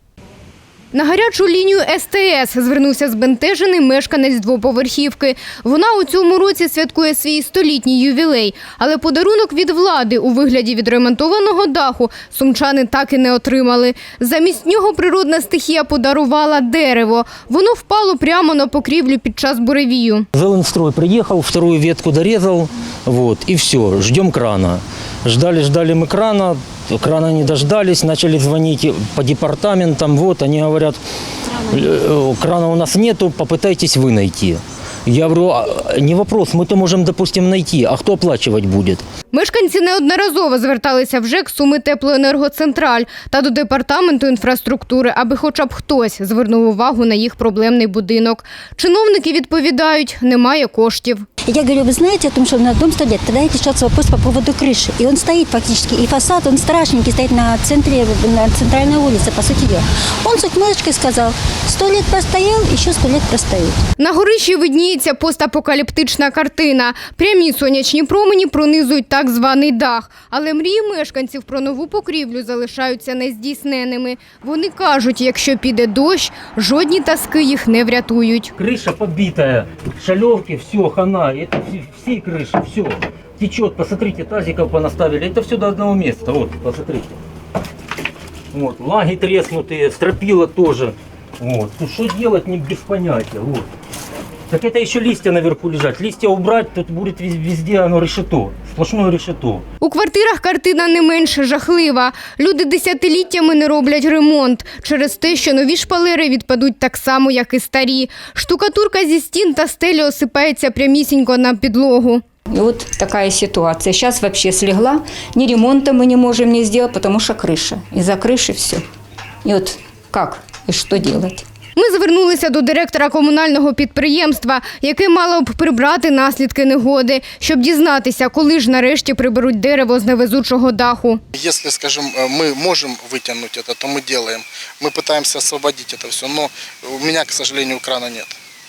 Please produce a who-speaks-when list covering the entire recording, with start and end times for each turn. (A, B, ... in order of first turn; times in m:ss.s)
0:00.9-0:20.2 A
0:20.3-0:31.0 B
0:31.6-0:39.0 B
0:39.3-0:51.2 A
0:51.5-1:03.7 C
1:04.0-1:18.5 A
1:18.6-1:27.2 B
1:28.5-1:33.6 B
1:34.5-1:39.6 B
1:39.8-1:52.2 A
1:52.5-1:58.8 D
1:59.4-2:01.4 D
2:01.8-2:11.2 A
2:11.3-2:18.4 E